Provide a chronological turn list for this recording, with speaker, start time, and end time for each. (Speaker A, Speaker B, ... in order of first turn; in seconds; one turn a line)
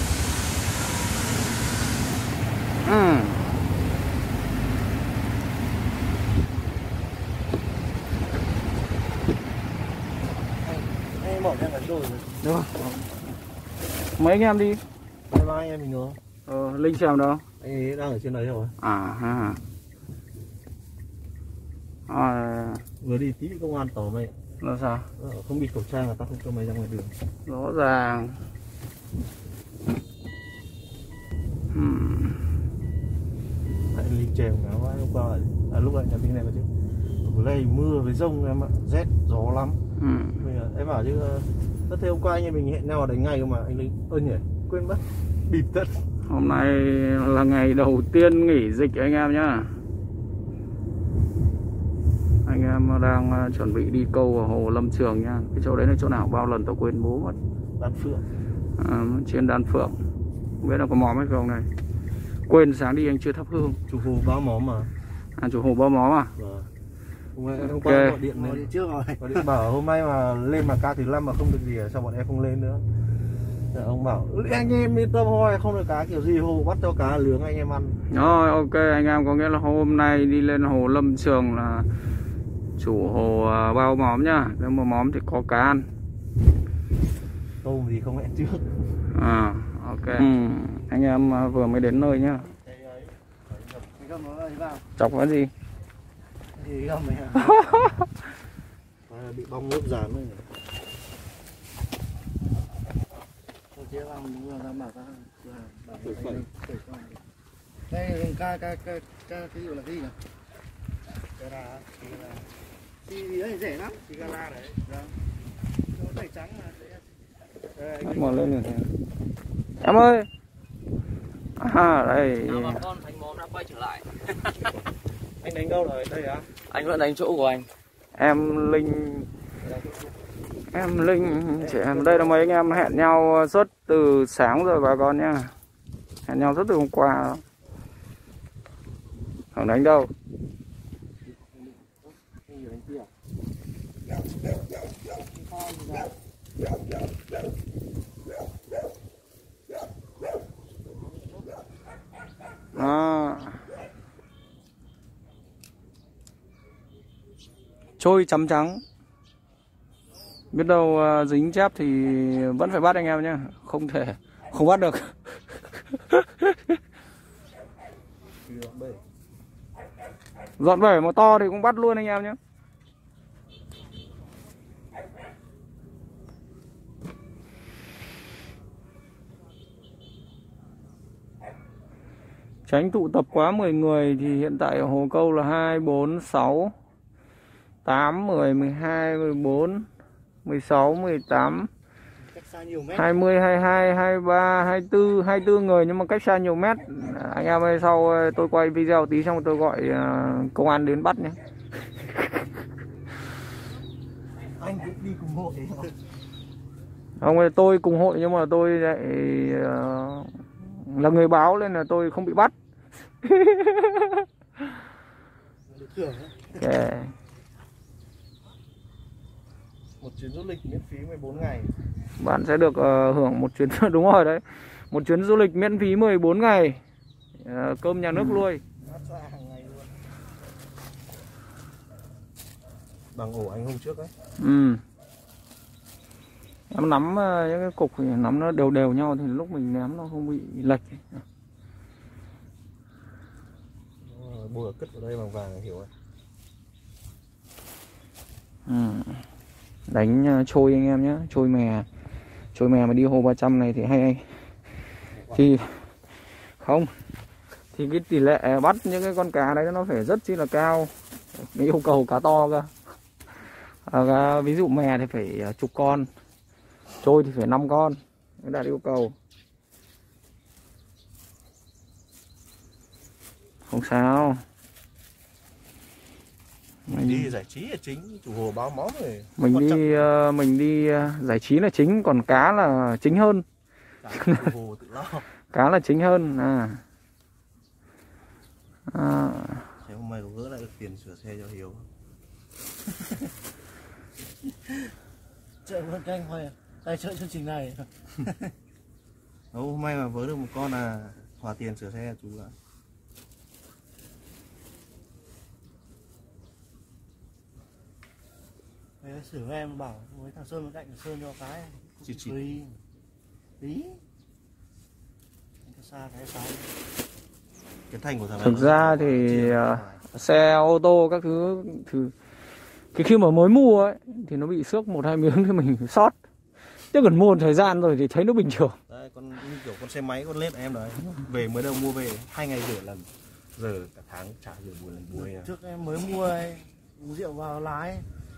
Speaker A: 2.8-3.4
Speaker B: 10.7-12.3
Speaker A: 12.4-13.0
Speaker A: 14.2-14.8
Speaker C: 15.3-16.2
Speaker A: 16.5-17.4
Speaker C: 17.6-18.8
Speaker A: 18.8-19.6
Speaker A: 22.1-22.8
Speaker C: 23.0-24.3
Speaker A: 24.6-25.1
Speaker C: 25.2-27.1
Speaker A: 27.4-28.4
Speaker A: 31.7-32.4
Speaker C: 33.9-36.7
Speaker C: 37.2-39.8
Speaker A: 40.0-40.4
Speaker C: 40.4-46.0
Speaker A: 46.2-49.7
Speaker A: 52.4-57.4
Speaker C: 57.8-58.2
Speaker A: 58.8-60.0
Speaker A: 60.6-61.7
Speaker A: 62.5-63.8
Speaker C: 63.9-64.9
Speaker A: 65.4-66.3
Speaker C: 66.4-66.7
Speaker C: 67.3-72.9
Speaker A: 67.5-68.2
Speaker B: 68.3-69.4
Speaker C: 73.7-78.0
Speaker A: 78.1-81.9
Speaker A: 82.8-85.9
Speaker C: 87.6-88.6
Speaker A: 89.1-92.5
Speaker C: 92.5-94.0
Speaker B: 94.0-94.8
Speaker A: 95.0-95.5
Speaker B: 96.5-97.7
Speaker A: 97.5-97.8
Speaker C: 99.1-100.5
Speaker B: 103.7-107.2
Speaker C: 106.0-106.5
Speaker B: 107.9-110.2
Speaker C: 111.4-112.4
Speaker B: 113.0-114.1
Speaker C: 114.0-115.0
Speaker B: 115.9-117.1
Speaker C: 117.7-118.6
Speaker A: 118.0-118.9
Speaker A: 119.8-120.3
Speaker A: 121.6-122.9
Speaker D: 122.6-124.1
Speaker C: 125.4-126.5
Speaker D: 126.7-127.7
Speaker A: 128.1-129.3
Speaker C: 129.6-130.1
Speaker A: 130.7-135.5
Speaker C: 131.6-132.8
Speaker A: 136.2-137.4
Speaker A: 139.5-140.1
Speaker B: 141.5-143.1
Speaker B: 145.5-146.1
Speaker A: 152.7-153.6
Speaker A: 158.0-158.8
Speaker A: 160.5-165.1
Speaker A: 165.9-166.5
Speaker C: 168.4-169.0
Speaker A: 170.6-172.4
Speaker A: 182.7-186.7
Speaker A: 187.8-189.8
Speaker A: 190.4-191.7
Speaker B: 192.3-193.1
Speaker A: 192.9-201.4
Speaker C: 204.6-205.9
Speaker A: 207.2-212.5
Speaker A: 213.2-214.2
Speaker B: 215.7-216.6
Speaker A: 216.5-217.1
Speaker C: 220.0-221.7
Speaker A: 222.2-226.8
Speaker A: 227.4-228.6
Speaker C: 228.8-229.9
Speaker C: 233.1-234.1
Speaker A: 234.4-234.8
Speaker A: 236.7-241.2
Speaker C: 244.0-245.9
Speaker A: 248.7-249.2
Speaker A: 249.9-251.8
Speaker A: 252.5-254.3
Speaker C: 255.1-255.4
Speaker A: 255.3-255.8
Speaker A: 256.6-256.9
Speaker A: 257.7-262.7
Speaker A: 263.9-266.1
Speaker A: 267.0-269.1
Speaker A: 273.7-274.4
Speaker A: 276.9-277.3
Speaker C: 276.9-280.1
Speaker A: 279.4-283.4
Speaker C: 284.0-285.2
Speaker A: 284.1-284.5
Speaker A: 285.5-286.8
Speaker A: 288.9-289.7
Speaker C: 289.8-291.9
Speaker B: 295.6-298.5
Speaker C: 299.5-302.6
Speaker B: 309.0-312.8
Speaker C: 312.0-312.4
Speaker B: 313.6-314.0
Speaker B: 315.6-316.8
Speaker C: 317.9-320.0
Speaker A: 318.4-322.1
Speaker A: 322.9-328.8
Speaker C: 328.9-335.5
Speaker B: 335.1-338.1